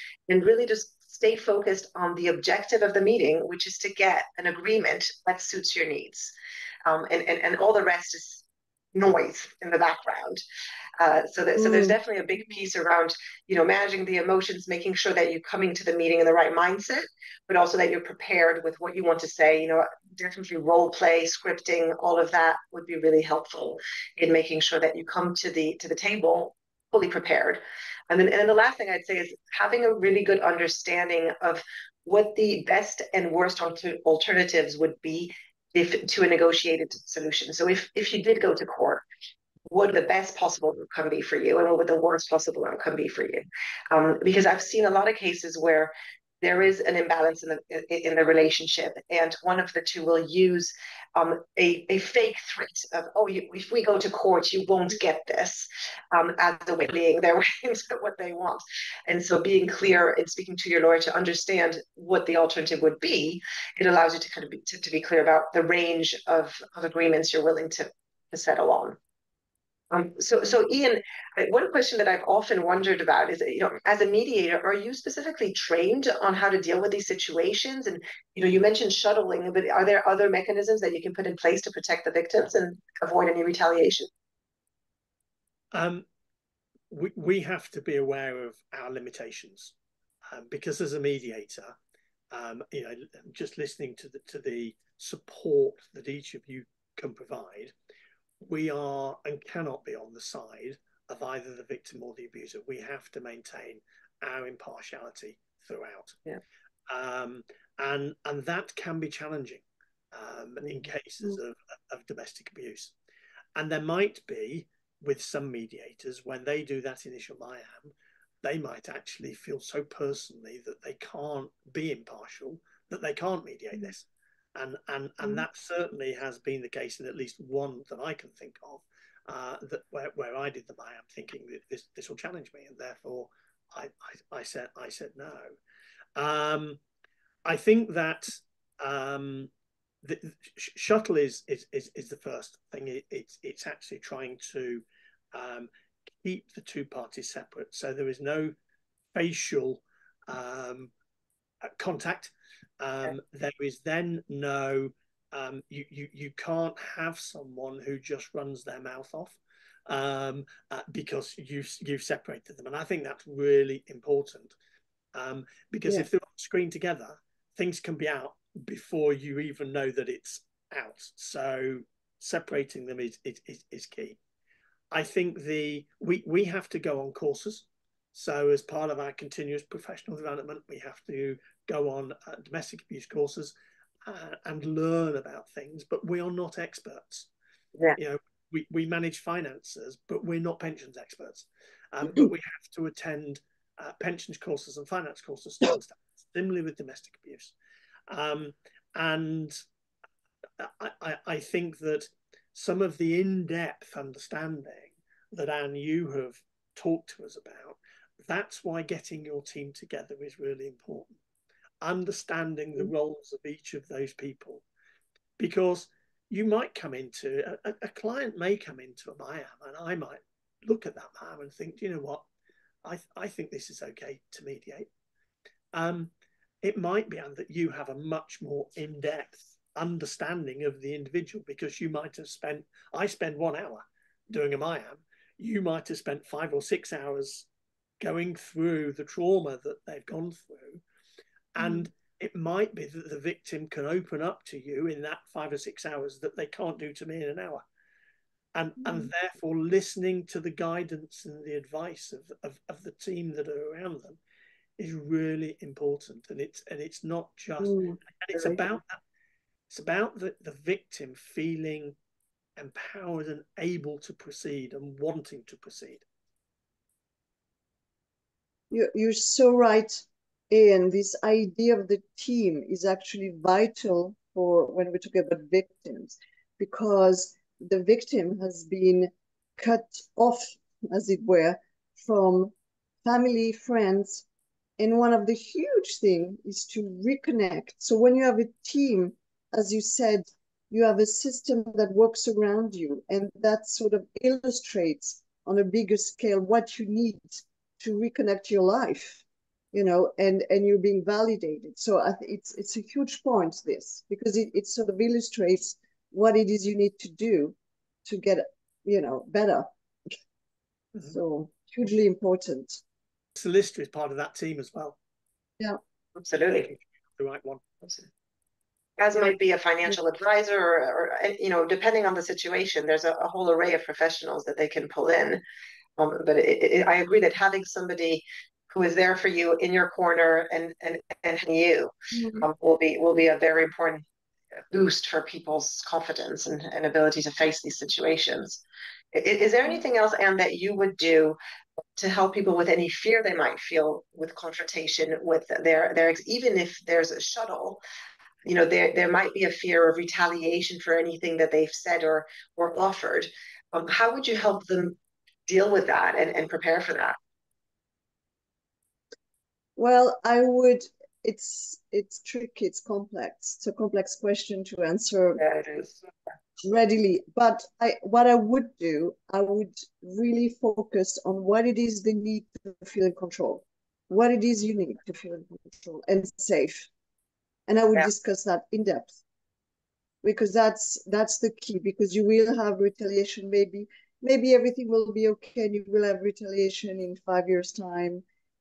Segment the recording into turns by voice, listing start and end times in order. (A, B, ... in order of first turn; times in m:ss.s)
0:00.3-0:06.3 A
0:06.8-0:10.4 A
0:11.0-0:39.0 A
0:11.6-0:11.9 B
0:39.7-1:09.0 A
1:09.9-1:24.1 A
1:25.7-1:26.0 C
1:26.9-1:29.7 C
1:30.3-1:31.8 C
1:32.3-1:37.7 C
1:38.4-1:46.2 C
1:46.9-1:52.9 C
1:53.6-2:15.5 C
2:16.2-2:16.8 C
2:17.4-2:19.5 C
2:20.0-2:25.7 C
2:26.2-2:28.5 C
2:29.1-2:30.9 C
2:31.6-2:44.5 C
2:45.1-2:54.2 C
2:54.9-3:07.3 C
3:08.0-3:17.5 C
3:18.1-3:19.6 C
3:20.6-3:31.2 C
3:31.8-3:34.6 C
3:35.4-3:42.2 C
3:42.8-3:44.9 C
3:45.7-3:46.1 C
3:46.6-3:57.5 C
3:58.0-4:00.8 C
4:01.5-4:07.6 C
4:08.5-4:14.2 C
4:08.8-4:09.1 B
4:14.8-4:19.0 C
4:17.6-4:18.0 B
4:19.7-4:22.0 C
4:22.6-4:26.0 C
4:28.7-4:42.5 B
4:43.0-4:44.2 B
4:44.8-5:09.7 B
5:11.0-5:12.8 B
5:13.3-5:15.0 C
5:16.2-5:16.7 A
5:16.5-5:17.6 C
5:19.0-5:25.4 A
5:26.0-5:34.0 A
5:32.1-5:32.4 B
5:34.7-5:38.6 A
5:39.1-5:41.4 A
5:42.0-5:47.8 A
5:48.4-5:55.0 A
5:55.5-5:57.2 A
5:59.8-6:05.4 B
6:05.4-6:06.0 A
6:06.6-6:16.9 B
6:17.7-6:19.2 B
6:20.2-6:28.2 B